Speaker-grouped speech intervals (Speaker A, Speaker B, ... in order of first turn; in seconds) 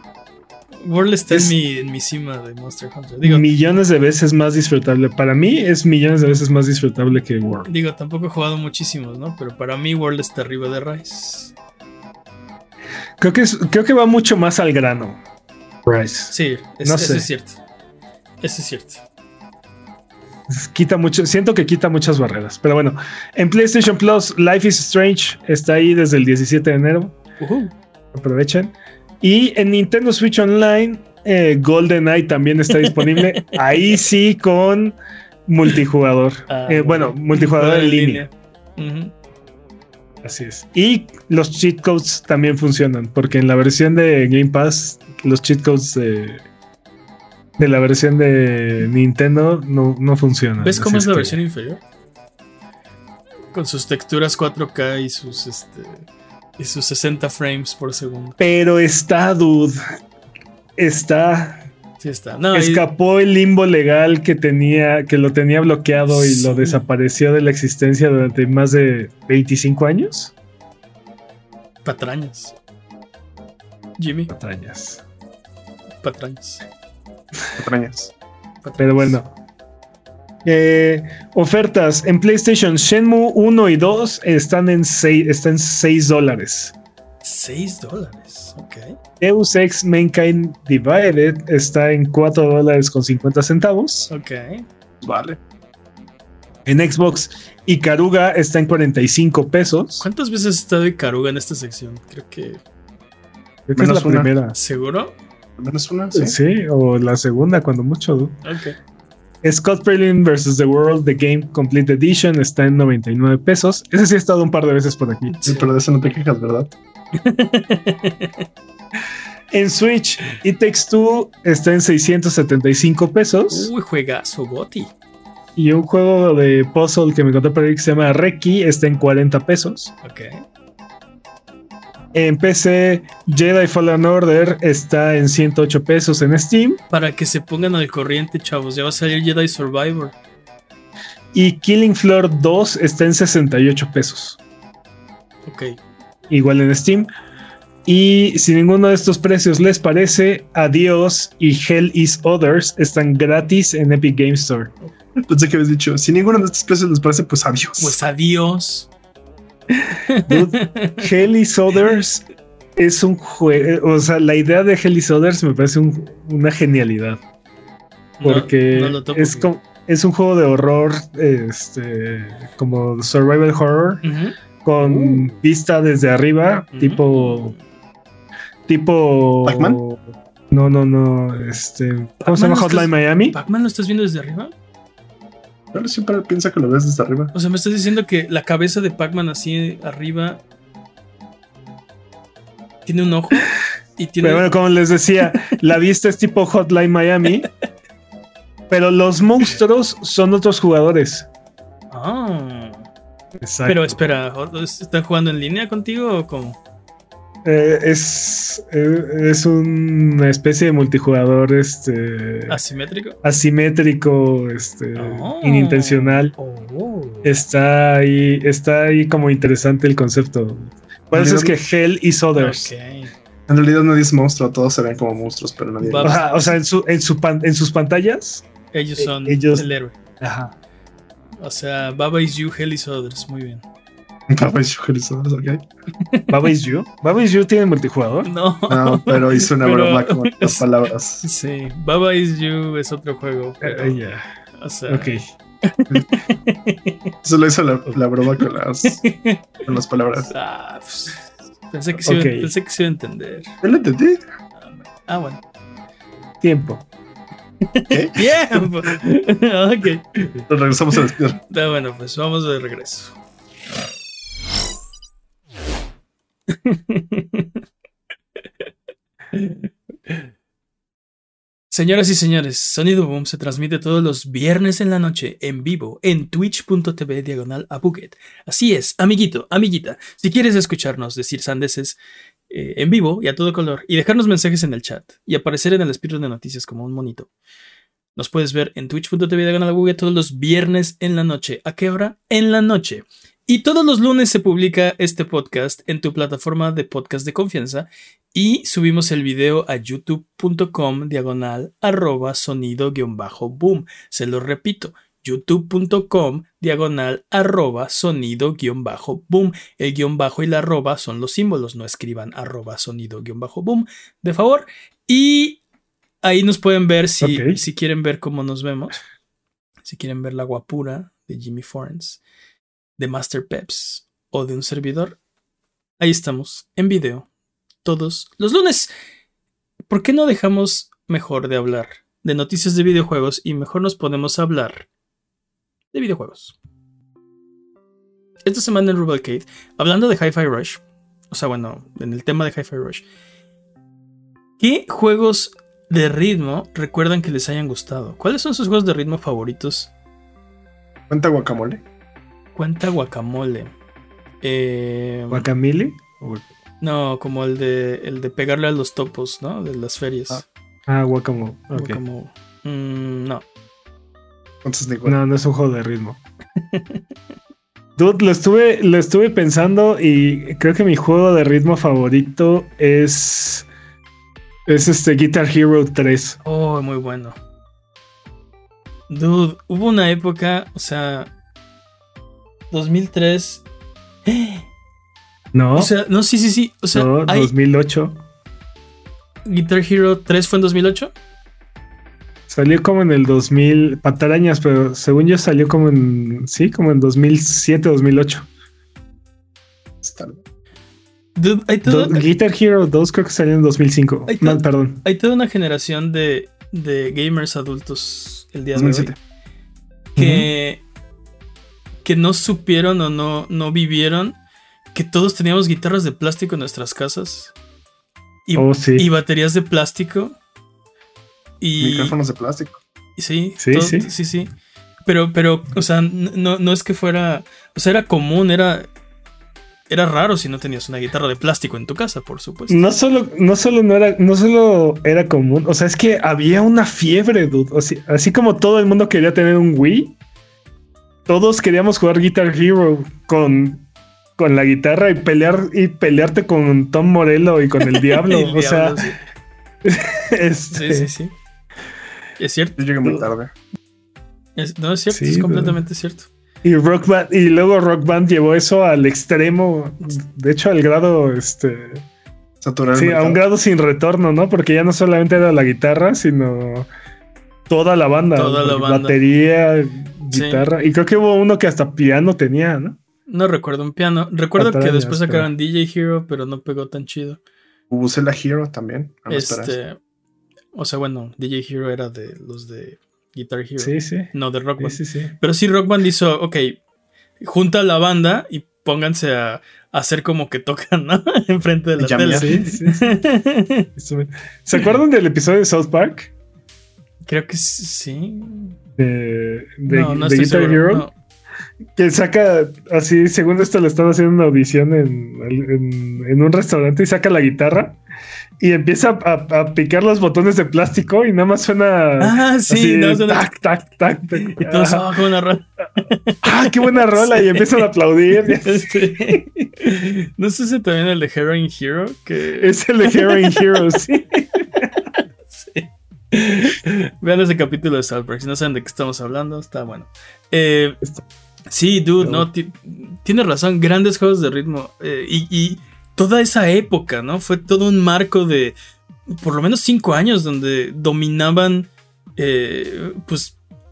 Speaker A: 0.8-3.4, 7.7-11.5, 16.3-17.6, 18.4-19.0, 27.4-27.7, 32.7-33.8, 36.5-39.1, 50.6-51.8, 53.5-56.1, 56.6-58.4, 62.0-62.9, 66.1-66.8, 71.8-72.5, 74.0-74.3, 76.0-76.7, 78.6-79.2, 87.2-88.9, 94.1-94.7, 100.0-102.6, 104.5-105.2, 108.4-108.8, 115.3-115.7, 117.2-118.5, 123.5-124.9, 130.0-130.4, 136.9-140.2, 145.4-145.8, 157.8-158.9, 159.8-161.1, 161.7-162.0, 168.2-169.5, 174.0-175.3, 176.7-177.6, 182.2-184.5, 187.3-190.4, 192.9-194.5, 201.9-202.8, 203.7-206.6, 212.5-213.2, 214.9-217.4, 222.4-223.1, 225.8-226.5, 228.7-229.9, 231.4-233.6, 236.1-236.3, 238.2-240.6, 241.2-244.0, 244.6-247.1, 248.8-249.4, 250.3-253.5, 254.6-255.4, 257.6-260.3, 261.5-263.1, 266.5-267.6, 269.3-270.2, 271.7-282.0, 282.5-287.3, 288.1-315.6, 316.2-319.0, 319.9-322.2, 323.0-325.2, 326.0-327.3, 327.9-328.9, 329.9-334.9, 335.9-336.6, 338.4-343.1, 344.6-349.9, 352.6-353.7, 354.4-355.5, 356.8-360.4, 361.7-363.4, 366.6-367.0, 376.4-377.4, 379.1-381.3, 382.7-383.6, 384.3-384.6, 385.8-387.5, 389.4-391.1, 401.4-402.3, 404.3-409.1, 410.1-410.8, 412.1-414.4, 414.9-417.5, 418.5-420.4, 421.6-422.1, 423.2-424.5, 425.1-428.9, 429.9-432.8, 447.9-449.2, 450.7-451.3, 452.4-453.3, 454.6-456.3, 468.4-469.2, 470.3-470.7, 473.3-477.4, 479.3-480.0, 480.7-486.8, 487.4-493.9, 497.3-498.8, 499.9-501.1, 512.2-513.5, 514.4-517.9, 518.4-523.8, 525.1-531.0, 531.7-538.7, 539.4-543.6
Speaker B: 3.2-7.7, 13.2-15.2, 15.9-16.3, 16.8-17.3, 20.5-27.1, 28.1-38.3, 40.2-46.4, 47.6-51.4, 58.4-59.8, 60.8-61.6, 62.5-70.3, 74.3-75.0, 78.8-79.3, 80.4-86.7, 89.2-94.1, 96.7-100.1, 103.7-104.6, 106.1-108.4, 109.4-115.3, 119.5-123.7, 125.6-129.9, 132.1-136.8, 141.3-144.4, 146.3-147.1, 147.9-154.7, 160.3-162.2, 162.8-167.2, 168.2-174.0, 174.6-177.6, 178.7-183.4, 194.2-197.5, 198.7-201.3, 203.4-204.0, 207.4-212.6, 213.2-216.3, 217.2-222.7, 226.0-228.4, 229.0-229.7, 230.2-230.6, 236.3-238.3, 243.6-244.2, 244.9-245.2, 252.1-252.5, 256.4-256.8, 317.2-317.6, 355.3-356.5, 360.9-362.0, 365.1-366.2, 368.0-373.7, 374.7-376.4, 385.5-385.9, 386.9-388.1, 392.5-398.5, 401.9-405.0, 410.2-410.4, 418.6-419.1, 423.6-424.1, 432.7-440.1, 441.3-443.9, 444.4-449.1, 449.8-451.1, 455.1-455.8, 456.6-462.0, 462.9-466.9, 467.7-473.0, 474.6-475.5, 483.8-485.3, 492.3-493.1, 494.0-496.3, 499.0-501.1, 501.9-508.0, 508.6-515.1, 516.4-519.6, 522.6-524.9
Speaker C: 77.6-78.1, 95.0-95.4, 103.8-104.3, 105.6-106.3, 115.5-116.7, 155.2-158.0, 179.4-179.8, 185.7-187.3, 221.1-221.6, 223.5-226.2, 234.3-235.6, 238.7-241.2, 247.2-249.0, 249.7-250.3, 253.6-254.2, 257.9-258.4, 260.5-261.4, 351.1-351.8, 364.6-365.2, 400.0-400.4, 408.7-409.1, 421.8-422.8, 452.8-453.5, 462.6-463.4, 477.9-479.8, 492.0-492.6